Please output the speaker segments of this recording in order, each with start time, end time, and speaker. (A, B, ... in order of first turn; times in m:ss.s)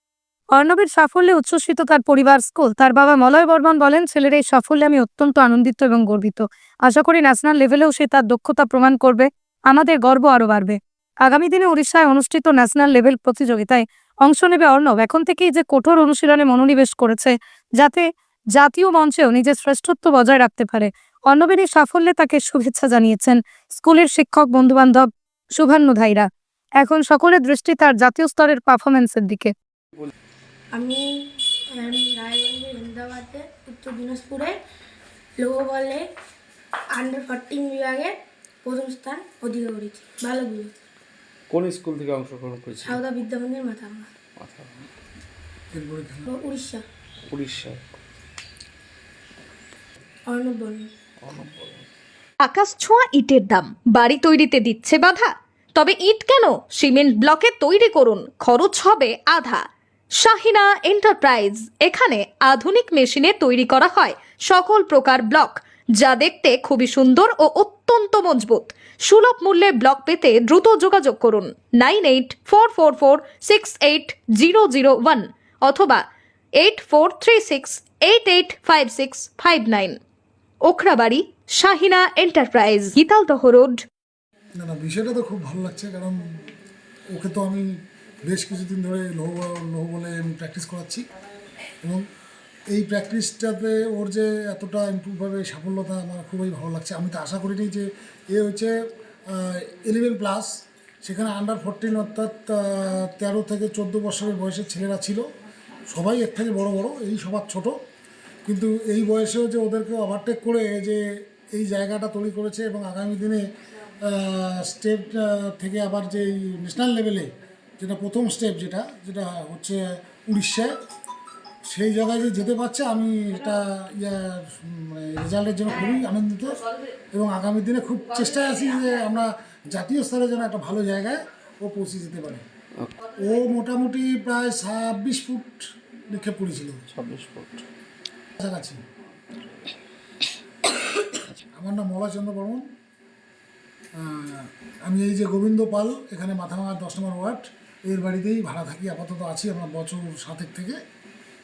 0:00.5-0:26.3 A
0:26.8-0:29.5 A
0:30.7-0:34.6 B
0:35.4-0:36.1 B
0:36.9-0:40.7 B
0:41.5-0:43.0 C
0:42.8-0:44.1 B
0:44.4-0:44.9 C
0:45.7-0:46.3 D
0:46.3-0:46.8 B
0:47.3-0:47.8 C
0:50.3-0:50.9 B
0:51.2-0:51.9 C
0:52.4-0:59.6 E
1:00.2-1:16.0 E
1:16.6-1:20.0 E
1:20.7-1:23.8 E
1:24.6-1:26.3 D
1:27.1-1:31.0 D
1:32.7-1:38.8 D
1:39.3-1:40.5 D
1:41.0-1:45.2 D
1:45.9-1:47.8 D
1:48.5-1:53.4 D
1:54.0-2:00.7 D
2:01.7-2:06.6 D
2:07.1-2:12.4 D
2:13.1-2:16.8 D
2:16.9-2:17.7 C
2:18.4-2:18.8 D
2:21.6-2:22.6 D
2:24.0-2:30.8 D